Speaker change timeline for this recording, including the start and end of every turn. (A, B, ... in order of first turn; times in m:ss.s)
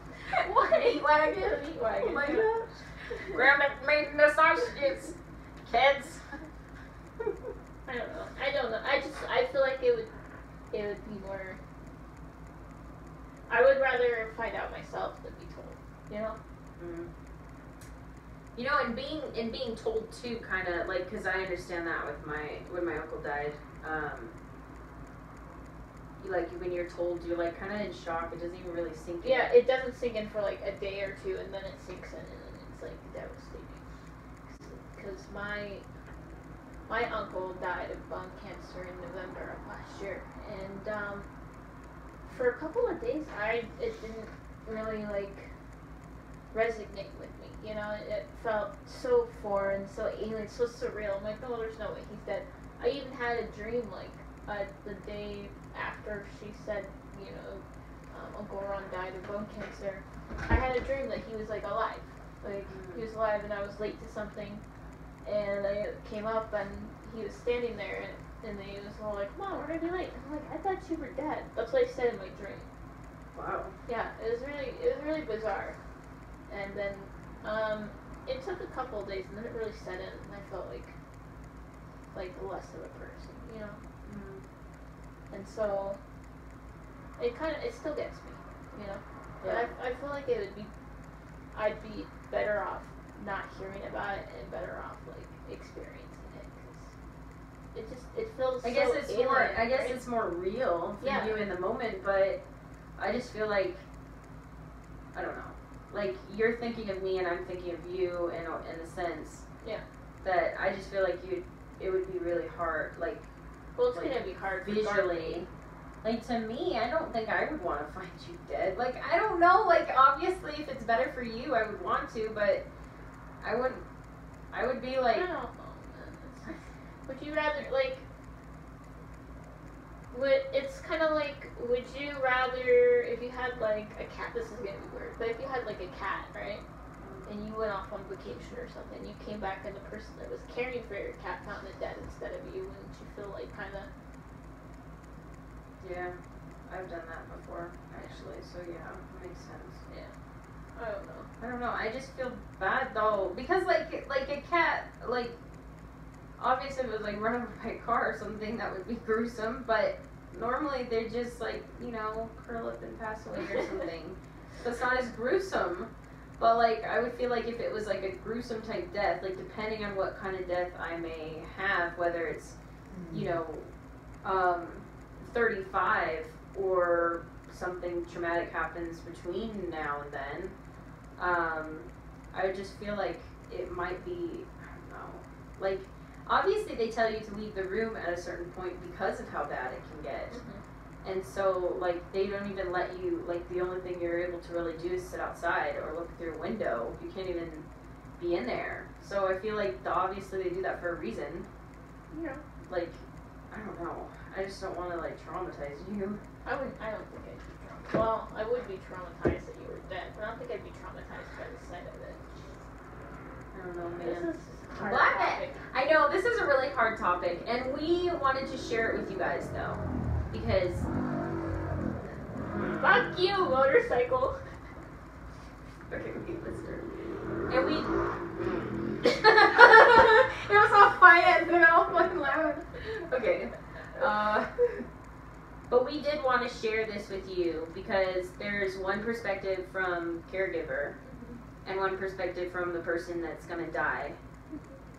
0:00.3-0:02.5 A
0:00.4-0:02.7 B
0:03.3-0:05.1 B
0:05.6-0:06.3 B
0:07.8-0:10.1 A
0:10.7-0:11.6 A
0:13.5-0:16.4 A
0:16.8-0:17.1 B
0:18.6-0:24.3 B
0:26.2-0:29.6 B
0:29.2-0:33.8 A
0:34.5-0:35.8 A
0:36.9-0:41.3 A
0:42.3-0:45.5 A
0:46.5-1:04.6 A
1:02.4-1:03.1 B
1:05.2-1:12.7 A
1:13.3-1:13.7 B
1:13.9-1:15.8 A
1:16.5-1:20.9 A
1:22.1-1:23.8 A
1:24.0-1:24.4 B
1:25.3-1:26.0 A
1:27.2-1:30.7 A
1:29.4-1:29.7 B
1:31.5-1:36.9 A
1:37.7-1:40.0 A
1:38.6-1:42.4 B
1:41.0-1:41.4 A
1:43.0-1:43.8 B
1:45.1-1:49.4 B
1:50.2-1:53.2 B
1:53.8-1:55.4 A
1:53.9-1:55.5 B
1:56.0-2:02.6 B
2:03.4-2:03.8 B
2:04.5-2:05.3 B
2:05.1-2:08.0 A
2:10.1-2:16.6 A
2:17.0-2:17.3 B
2:17.2-2:23.9 A
2:25.8-2:29.8 B
2:29.9-2:30.1 A
2:30.8-2:31.3 A
2:31.4-2:35.4 B
2:36.4-2:52.6 B
2:53.1-2:53.7 B
2:54.2-3:00.5 B
3:01.2-3:10.4 B
3:10.3-3:10.6 A
3:11.0-3:17.6 B
3:18.2-3:21.5 B
3:22.1-3:22.4 A
3:22.6-3:26.2 B
3:26.4-3:32.4 A
3:33.5-3:40.9 B
3:34.0-3:35.6 A
3:42.4-3:42.8 B
3:42.8-3:44.4 A
3:45.9-3:46.8 B
3:47.5-3:54.8 B
3:55.7-4:01.0 B
4:01.0-4:01.4 A
4:01.6-4:04.2 B
4:04.5-4:04.8 A